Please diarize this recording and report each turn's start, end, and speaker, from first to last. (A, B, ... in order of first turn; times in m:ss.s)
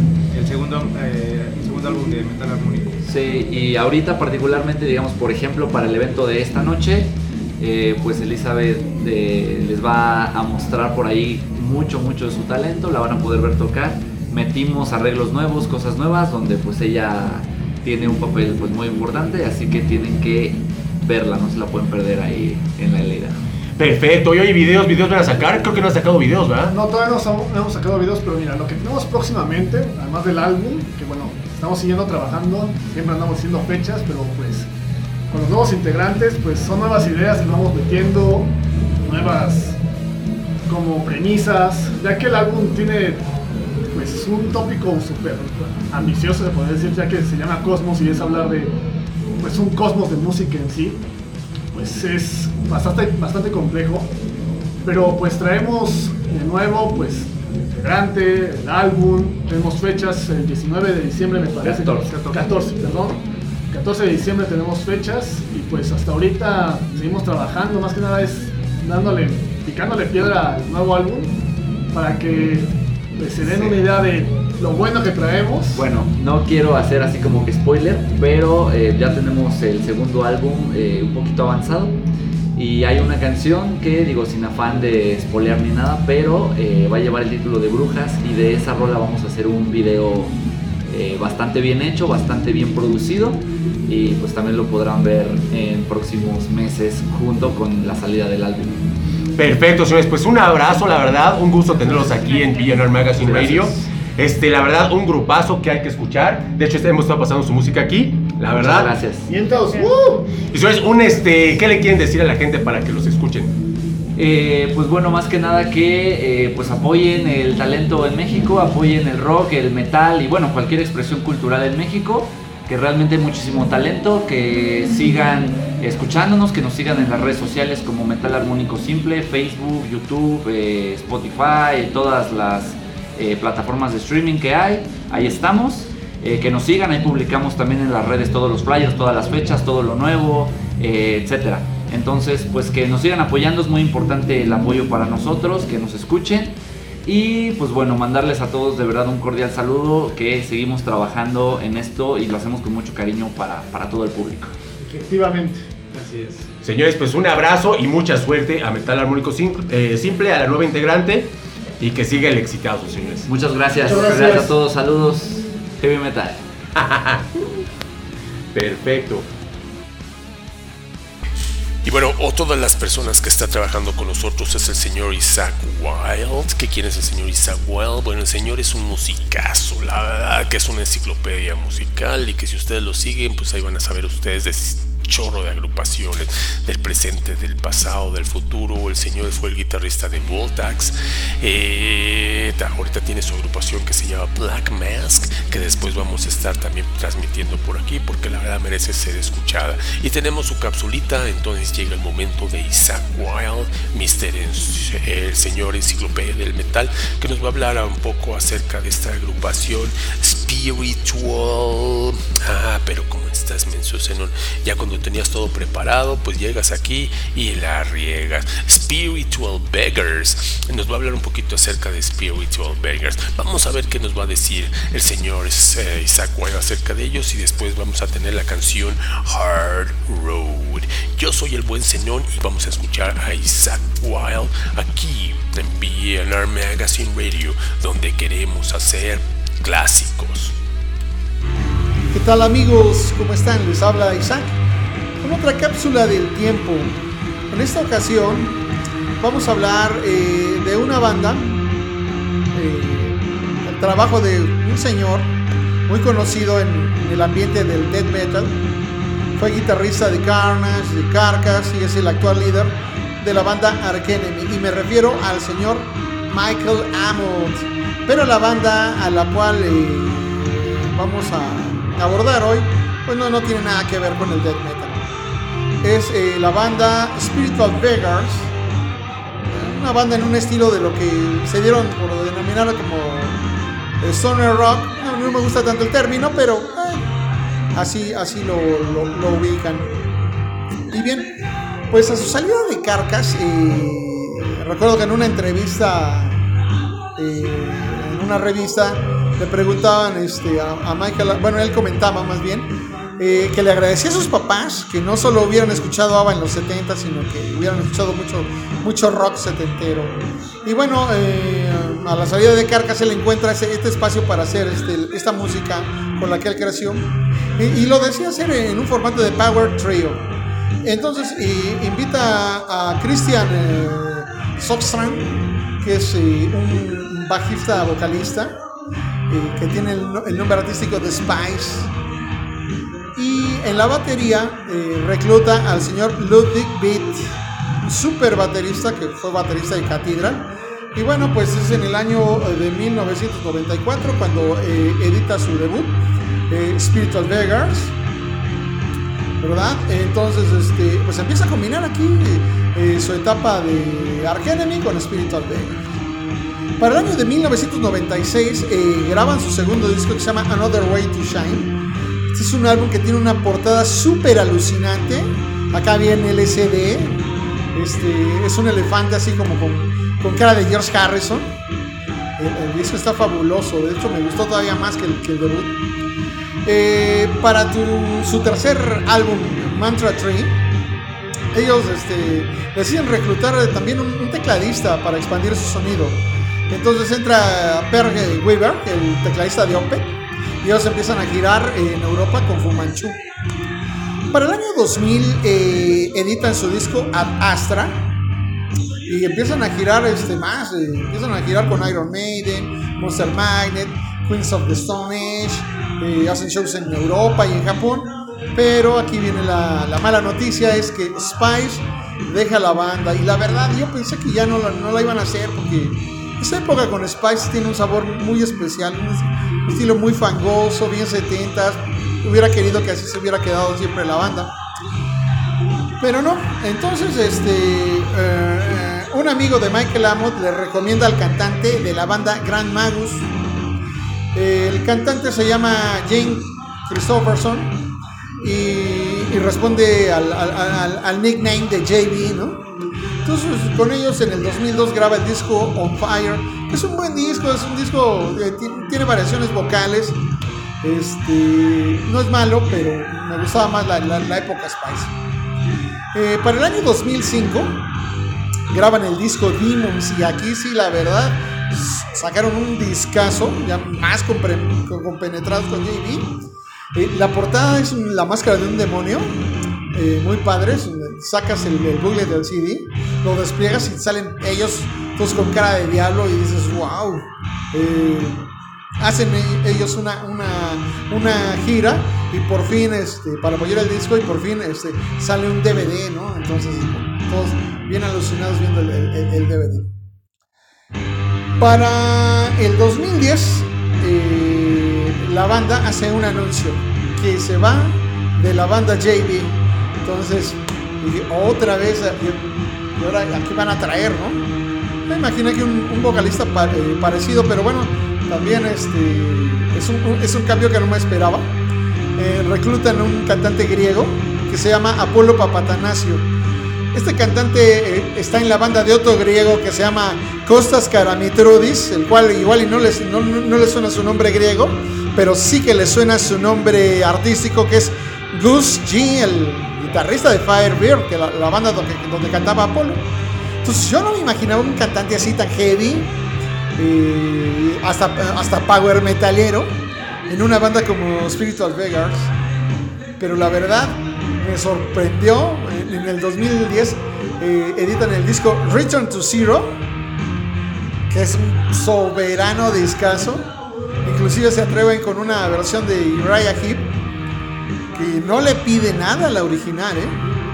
0:00.3-0:03.0 A
0:03.0-0:23.4 B
0:23.8-0:26.7 C
0:26.7-0:34.7 D
0:35.3-0:38.5 D
0:39.0-0:39.8 D
0:40.7-0:43.2 D
0:43.9-0:48.7 D
0:49.4-0:51.0 D
0:51.7-0:54.1 D
0:54.8-1:11.4 D
1:01.6-1:02.1 B
1:02.1-1:02.4 A
1:11.9-1:15.8 D
1:13.5-1:13.8 B
1:15.7-1:22.0 B
1:22.6-1:30.4 B
1:30.9-1:38.8 B
1:39.4-1:48.9 C
1:43.2-1:43.7 B
1:48.6-1:49.3 B
1:49.3-1:50.2 D
1:50.5-1:53.6 C
1:54.2-2:34.5 B
2:34.9-2:35.6 D
2:35.9-2:36.5 A
2:36.6-2:43.3 C
2:43.3-2:46.4 B
2:43.9-2:44.5 D
2:46.8-2:47.2 C
2:48.6-2:49.1 C
2:51.8-4:00.6 C
4:02.1-4:04.6 E
4:05.2-4:07.0 E
4:07.5-4:08.6 E
4:09.2-4:11.6 E
4:12.5-4:15.3 E
4:15.9-4:18.6 E
4:19.4-4:35.2 E
4:35.8-4:38.5 E
4:39.5-4:43.4 E
4:44.0-4:47.0 E
4:47.7-4:50.0 E
4:50.9-4:51.3 E
4:51.9-4:56.4 E
4:57.2-5:17.1 E
5:17.6-5:20.2 E
5:20.8-5:28.6 E
5:29.3-5:31.9 E
5:33.2-5:37.3 E
5:37.8-5:46.0 E
5:46.5-5:47.9 E
5:49.4-5:55.8 E
5:56.8-6:01.7 E
6:02.3-6:07.2 E
6:07.8-6:11.5 E
6:12.4-6:15.8 E
6:16.6-6:20.6 E
6:21.5-6:33.2 E
6:34.3-6:38.0 E
6:39.1-7:04.5 E
7:06.0-7:13.3 E
7:14.3-7:17.7 E
7:18.4-7:22.6 E
7:23.2-7:30.2 E
7:30.8-7:35.1 E
7:36.1-7:37.8 E
7:38.7-7:46.4 E
7:47.0-7:49.3 E
7:49.9-7:58.5 E
7:59.0-8:09.9 E
8:11.6-8:24.4 E
8:25.1-8:31.5 E
8:32.2-8:36.3 E
8:36.9-8:53.0 E
8:53.6-8:56.1 E
8:56.8-8:59.7 E
9:00.3-9:02.3 E
9:03.2-9:09.8 E
9:11.1-9:13.5 E
9:14.0-9:16.9 E
9:17.9-9:20.2 E